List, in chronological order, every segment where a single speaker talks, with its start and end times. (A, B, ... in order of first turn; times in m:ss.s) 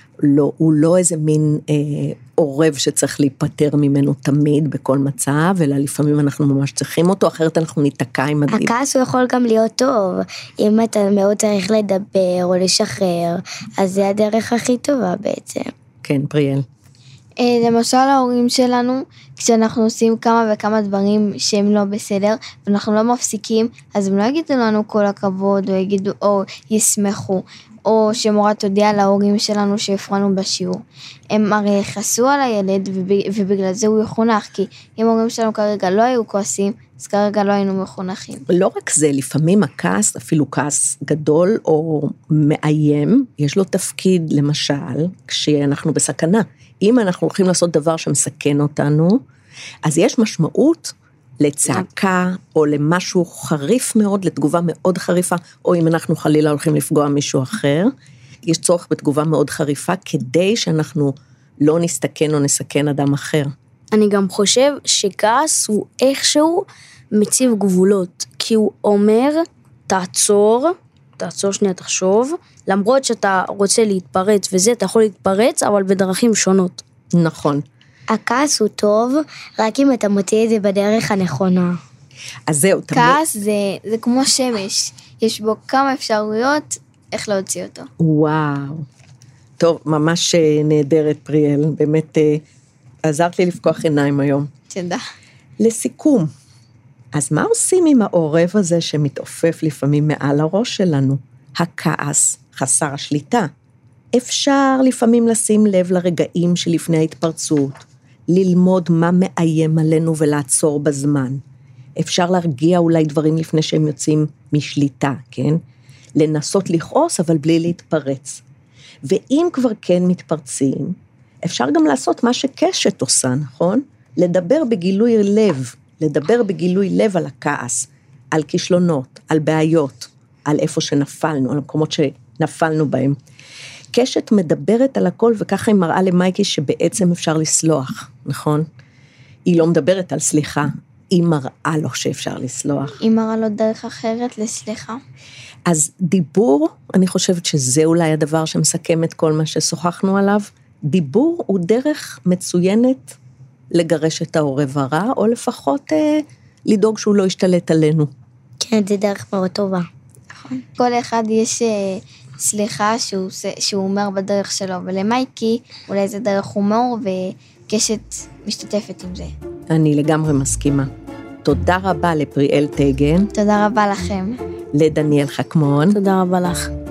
0:00.2-0:08.7 A
0:08.5-0:15.7 B
0:16.0-0:16.6 A
0:17.4-0:38.4 C
0:38.5-0:49.2 A
0:49.8-0:57.9 A
0:58.4-1:03.5 A
1:03.9-1:16.8 D
1:17.1-1:17.6 A
1:18.1-1:21.8 B
1:22.5-1:23.2 A
1:22.9-1:27.9 C
1:28.0-1:28.9 A
1:29.6-1:32.4 A
1:33.0-1:34.5 A
1:34.7-1:35.0 C
1:35.6-1:36.3 A
1:37.1-1:43.5 A
1:44.1-1:51.4 A
1:52.0-1:55.6 A
1:56.2-1:58.4 A
1:59.0-2:13.2 A
2:13.9-2:18.6 A
2:19.5-2:23.0 A
2:23.0-2:25.0 C
2:25.7-2:33.2 A
2:33.7-2:38.1 A
2:38.6-2:39.9 B
2:40.3-2:49.3 C
2:49.7-2:50.9 A
2:51.4-2:53.3 A
2:53.3-2:54.4 C
2:54.7-2:56.0 A
2:55.9-2:56.7 D